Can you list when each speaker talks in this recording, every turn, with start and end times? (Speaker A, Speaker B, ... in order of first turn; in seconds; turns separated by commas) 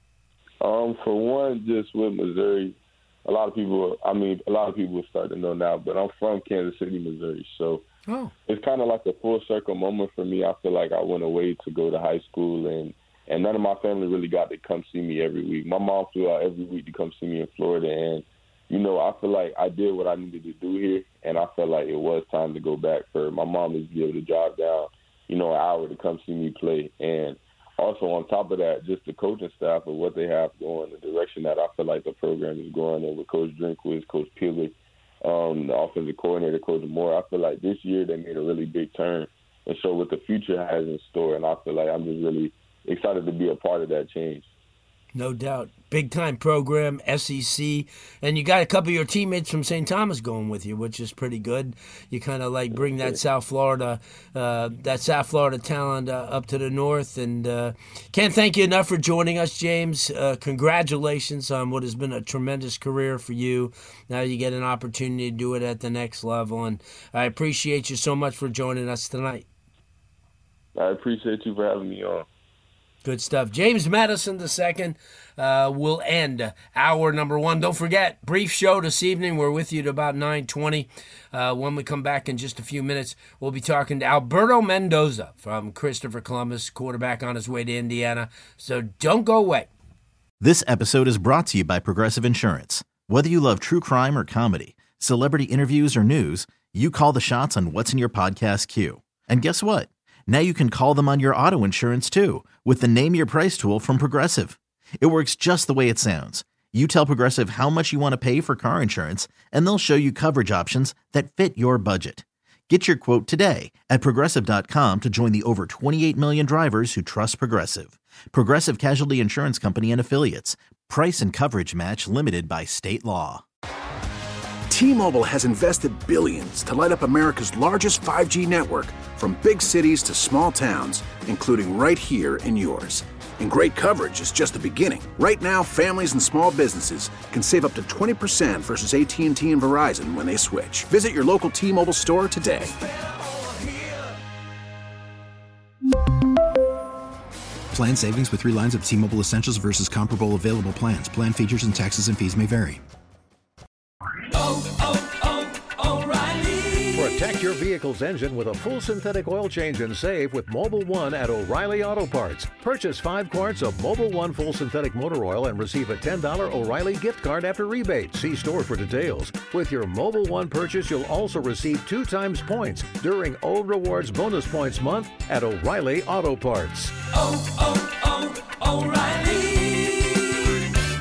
Speaker A: 0.6-7.8, Speaker B: 8.1-8.3, Speaker A: 8.5-44.5, Speaker B: 45.1-69.5, Speaker A: 70.8-72.3, Speaker B: 73.0-89.7, Speaker C: 90.4-123.4, Speaker D: 124.7-142.7, Speaker E: 147.7-152.8, Speaker B: 154.3-157.0, Speaker F: 156.9-177.1, Speaker B: 177.2-180.1